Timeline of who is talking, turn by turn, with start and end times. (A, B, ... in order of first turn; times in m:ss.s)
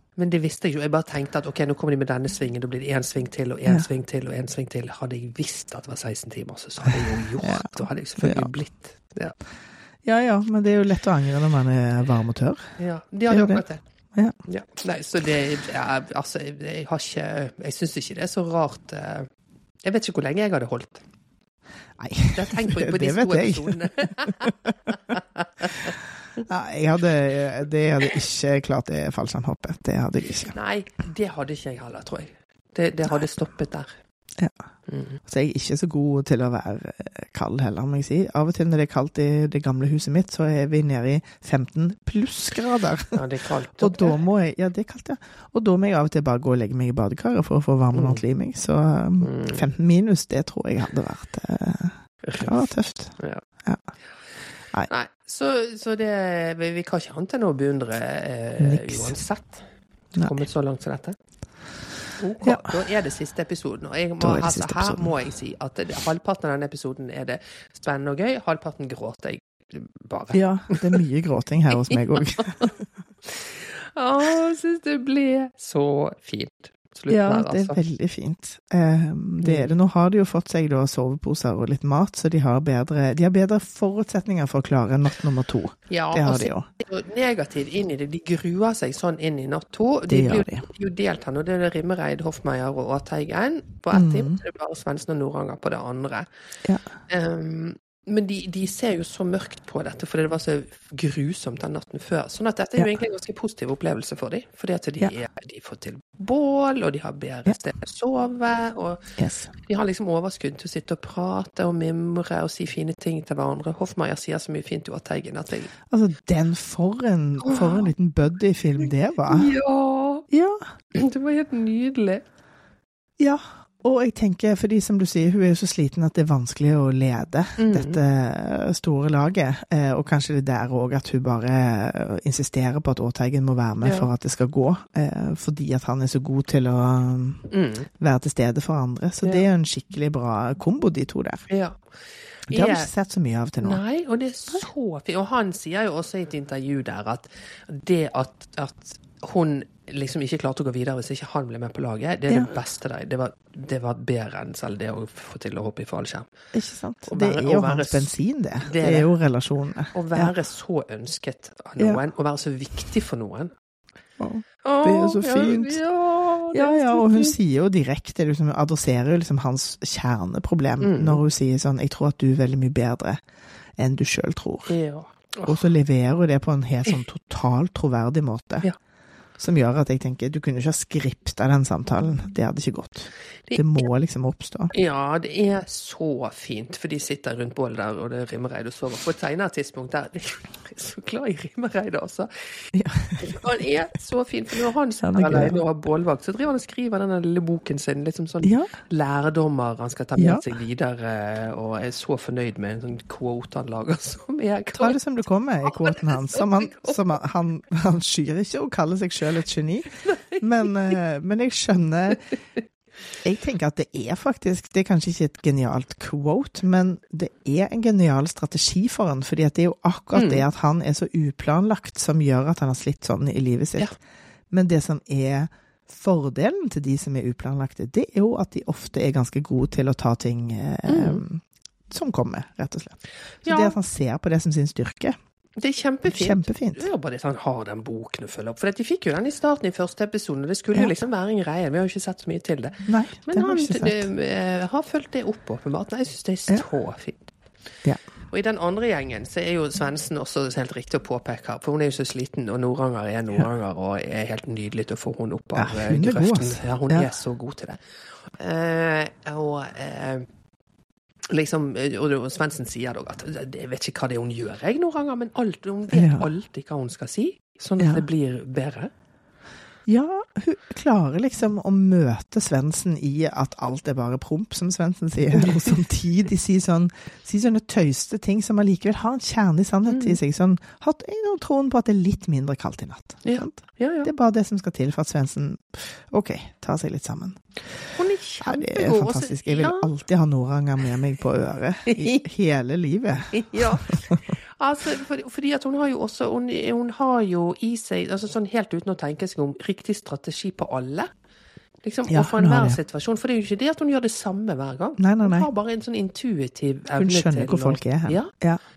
0:00.2-0:09.4 A
0:07.4-0:08.5 B
0:10.0-0:12.6 B
0:12.8-0:13.8 A
0:13.3-0:13.6 B
0:14.5-0:19.3 A
0:19.8-0:21.0 A
0:22.0-0:24.7 B
0:22.3-0:26.0 A
0:26.4-0:30.6 B
0:30.5-0:33.9 A
0:34.9-0:35.2 A
0:35.2-0:43.2 B
0:43.1-0:44.2 A
0:43.8-0:53.8 B
0:47.9-0:48.2 A
0:49.2-0:49.6 A
0:52.2-0:53.4 A
0:54.9-1:01.2 A
0:58.6-0:59.2 B
1:02.2-1:11.0 A
1:02.4-1:02.7 B
1:04.2-1:05.1 B
1:10.3-1:12.8 B
1:11.8-1:12.7 A
1:13.3-1:17.8 A
1:17.1-1:26.7 B
1:19.4-1:19.7 A
1:25.9-1:36.3 A
1:30.1-1:30.6 B
1:33.9-1:34.4 B
1:37.1-1:55.7 A
1:49.2-1:49.5 B
1:55.9-1:59.5 B
1:57.4-1:57.9 A
1:59.3-2:00.3 A
2:00.3-2:00.6 B
2:00.9-2:02.2 A
2:03.2-2:17.4 B
2:07.6-2:08.0 A
2:13.8-2:14.1 A
2:17.5-2:17.9 A
2:18.0-2:21.5 B
2:21.5-2:21.9 A
2:22.5-2:22.9 A
2:22.5-2:23.8 B
2:23.6-2:36.3 A
2:36.5-2:40.3 B
2:37.1-2:39.1 A
2:39.9-2:43.5 A
2:44.2-2:45.8 B
2:44.6-2:47.4 A
2:46.5-2:53.2 B
2:50.8-2:51.2 A
2:53.8-2:54.8 B
2:54.7-2:55.7 A
2:55.5-2:58.7 B
2:59.4-3:04.7 B
3:03.5-3:03.8 A
3:04.7-3:25.0 A
3:12.7-3:13.5 B
3:15.0-3:15.6 B
3:18.4-3:18.7 B
3:20.2-3:20.4 B
3:24.8-3:32.2 B
3:25.6-3:27.1 A
3:30.0-3:31.0 A
3:33.2-3:43.9 B
3:40.1-3:40.4 A
3:44.5-3:55.2 B
3:50.9-3:51.2 A
3:53.4-3:53.8 A
3:55.6-4:07.3 A
3:56.0-3:56.8 B
4:02.9-4:04.1 B
4:08.3-4:20.2 A
4:15.6-4:17.1 B
4:21.3-4:28.9 A
4:25.9-4:26.3 B
4:27.8-4:28.0 B
4:29.9-4:47.4 B
4:35.3-4:35.8 A
4:39.9-4:40.2 A
4:43.2-4:44.1 A
4:47.9-4:49.9 A
4:48.4-4:54.2 B
4:51.9-4:52.2 A
4:53.3-5:01.1 A
5:01.8-5:08.3 A
5:02.1-5:02.8 B
5:05.0-5:05.5 B
5:07.0-5:08.6 B